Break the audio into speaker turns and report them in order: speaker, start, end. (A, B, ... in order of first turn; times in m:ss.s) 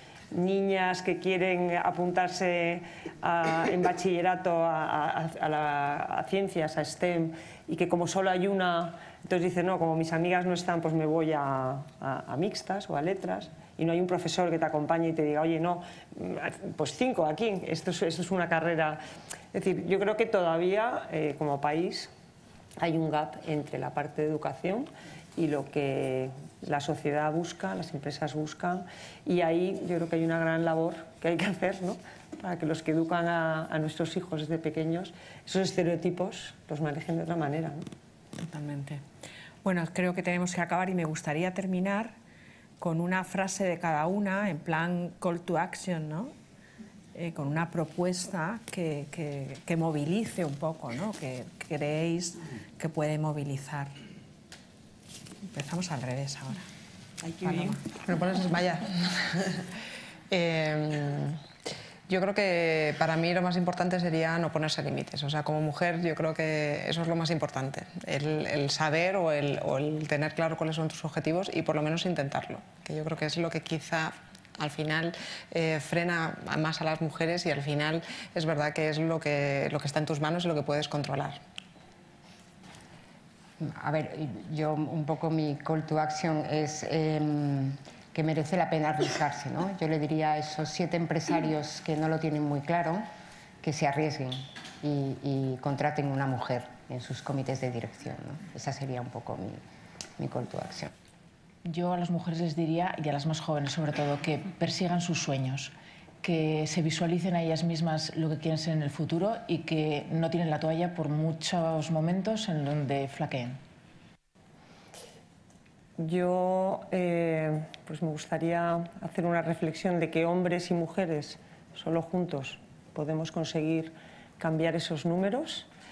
0:00.3-0:19.0 A
0:19.5-0:22.1 A
0:22.8-0:37.8 A
0:38.4-0:39.0 B
0:39.6-0:42.1 B
0:42.8-0:46.3 B
0:47.1-0:53.9 B
0:55.5-0:56.7 B
0:57.4-0:57.8 B
0:57.6-0:59.6 C
1:00.3-1:01.4 C
1:02.1-1:21.4 C
1:23.6-1:33.0 D
1:33.6-1:39.6 D
1:40.2-1:40.9 D
1:41.6-1:53.6 E
1:56.0-2:05.7 A